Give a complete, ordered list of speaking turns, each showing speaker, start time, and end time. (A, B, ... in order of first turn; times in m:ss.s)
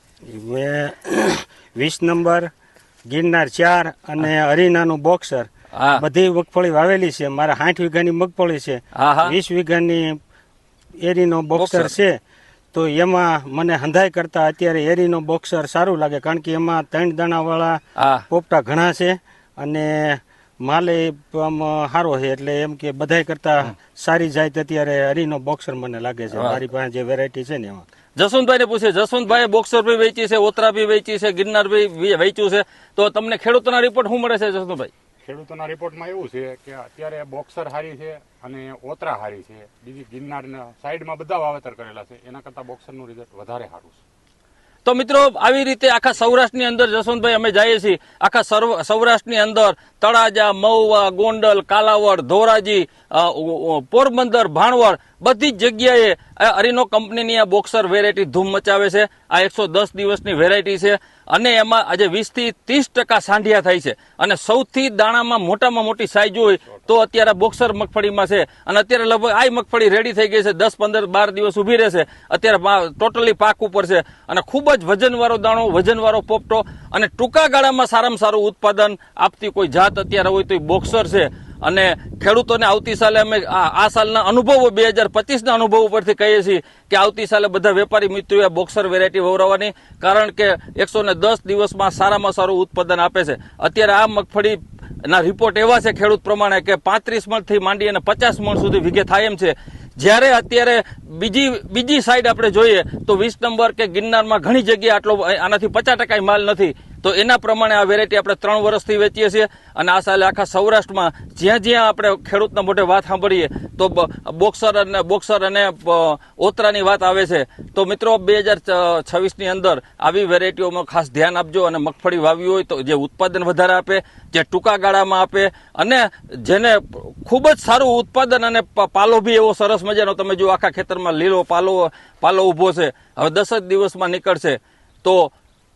0:00.3-0:02.5 A
0:03.1-0:10.2 A
0:05.7-0:06.0 B
0:08.9-0:09.3 B
0:11.0-0:12.2 A
0:11.6-0:11.9 B
0:12.7-0:27.8 A
0:18.0-0:18.2 B
0:26.3-0:26.6 B
0:28.2-0:34.9 B
0:35.2-0:44.0 C
0:44.8-2:15.3 B